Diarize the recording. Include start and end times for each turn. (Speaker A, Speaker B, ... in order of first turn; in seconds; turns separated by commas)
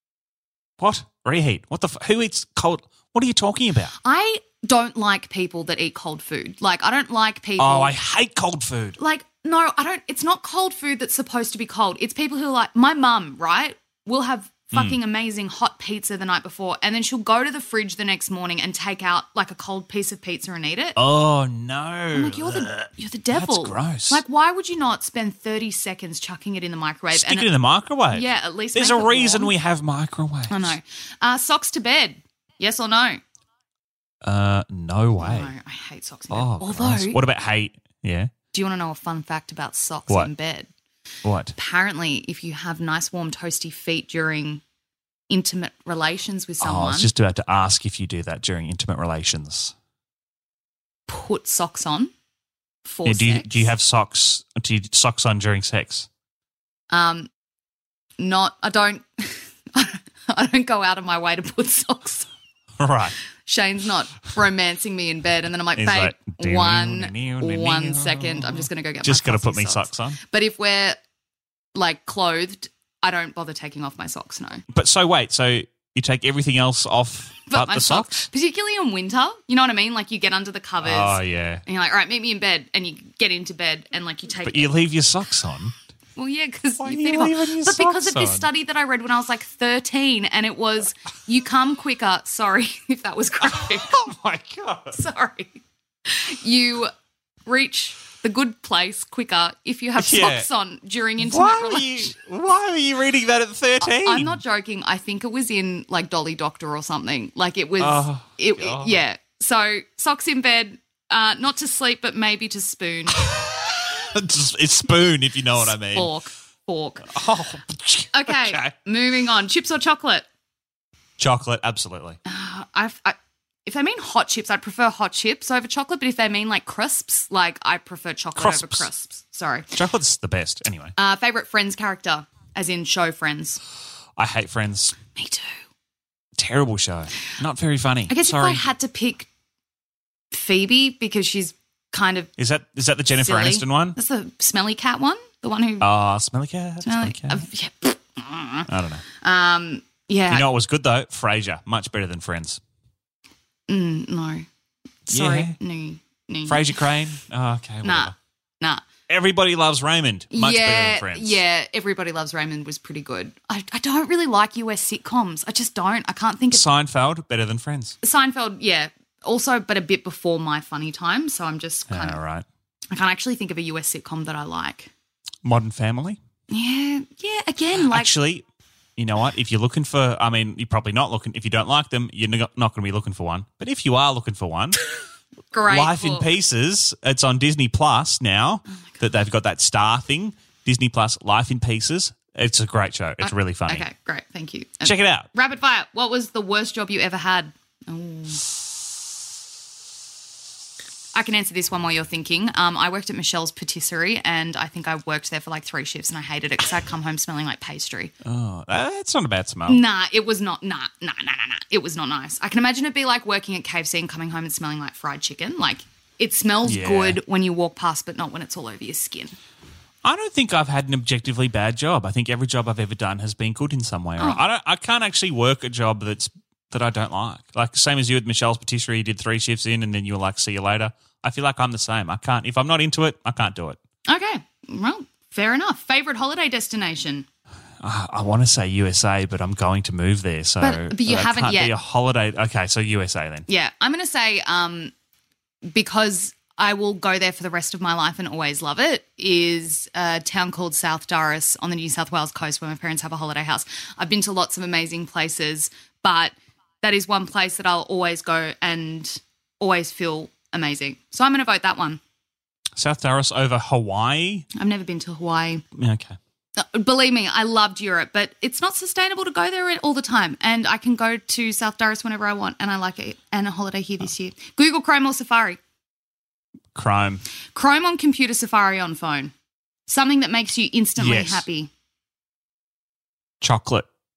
Speaker A: 0.8-3.9, Speaker B: 4.0-8.0, Speaker A: 7.6-9.0, Speaker B: 9.0-21.0, Speaker A: 21.0-24.2, Speaker B: 22.1-27.5, Speaker A: 27.1-30.8, Speaker B: 28.1-29.5, Speaker B: 30.5-33.2, Speaker A: 34.2-35.5, Speaker B: 35.2-37.2, Speaker A: 36.3-38.3, Speaker B: 38.5-40.7, Speaker A: 41.2-41.5, Speaker B: 41.6-44.6, Speaker B: 45.3-47.1, Speaker A: 46.6-49.7, Speaker B: 51.1-52.1, Speaker B: 52.9-53.7, Speaker A: 53.1-56.1, Speaker B: 56.9-57.3, Speaker B: 58.2-62.3, Speaker A: 62.8-63.2, Speaker B: 63.5-71.0, Speaker A: 65.8-70.2, Speaker B: 71.8-74.6, Speaker A: 74.7-78.3, Speaker B: 77.5-84.8, Speaker A: 80.8-81.6, Speaker A: 84.4-85.7, Speaker B: 86.2-94.0, Speaker A: 86.8-88.5, Speaker A: 93.4-95.0, Speaker B: 94.9-96.9, Speaker B: 97.5-102.1, Speaker A: 100.0-100.5, Speaker A: 101.2-104.4, Speaker B: 103.8-113.3, Speaker A: 107.8-109.0, Speaker A: 113.2-116.1, Speaker B: 115.6-117.1, Speaker A: 117.1-118.7, Speaker B: 118.1-120.2, Speaker A: 121.2-122.2, Speaker B: 122.3-129.7, Speaker A: 128.4-128.9, Speaker A: 129.7-130.9, Speaker B: 131.0-133.6, Speaker A: 134.2-134.9, Speaker B: 135.2-135.6, Speaker A: 136.4-138.6, Speaker B: 138.1-139.3, Speaker B: 140.3-142.3, Speaker A: 142.4-144.0, Speaker B: 143.2-145.9, Speaker A: 145.8-147.4, Speaker B: 146.8-148.7, Speaker A: 148.7-149.0, Speaker B: 149.2-150.5, Speaker A: 150.3-152.6, Speaker B: 153.7-154.5, Speaker B: 155.1-156.6, Speaker A: 155.1-155.6, Speaker A: 156.5-158.1, Speaker B: 157.8-158.8, Speaker A: 159.1-161.4, Speaker B: 160.3-166.6, Speaker A: 166.5-168.0, Speaker B: 168.0-172.2, Speaker A: 171.9-172.4, Speaker B: 172.9-174.9, Speaker A: 175.4-176.2, Speaker B: 176.5-178.1, Speaker A: 177.8-178.4, Speaker A: 179.0-184.8, Speaker B: 185.5-186.3, Speaker A: 185.7-193.8, Speaker B: 193.2-198.4, Speaker A: 194.8-195.3, Speaker B: 201.1-208.1, Speaker A: 208.2-209.8, Speaker B: 209.7-219.4, Speaker A: 216.6-217.2, Speaker A: 220.0-233.8, Speaker B: 234.1-237.3, Speaker A: 237.8-243.5, Speaker B: 240.6-241.7, Speaker B: 243.5-244.9, Speaker B: 245.7-262.0, Speaker A: 262.8-264.5, Speaker B: 264.6-265.6, Speaker A: 265.8-266.2, Speaker B: 266.6-275.6, Speaker A: 276.8-277.2, Speaker B: 277.6-279.3, Speaker B: 279.9-281.7, Speaker A: 281.0-281.4, Speaker A: 283.4-283.9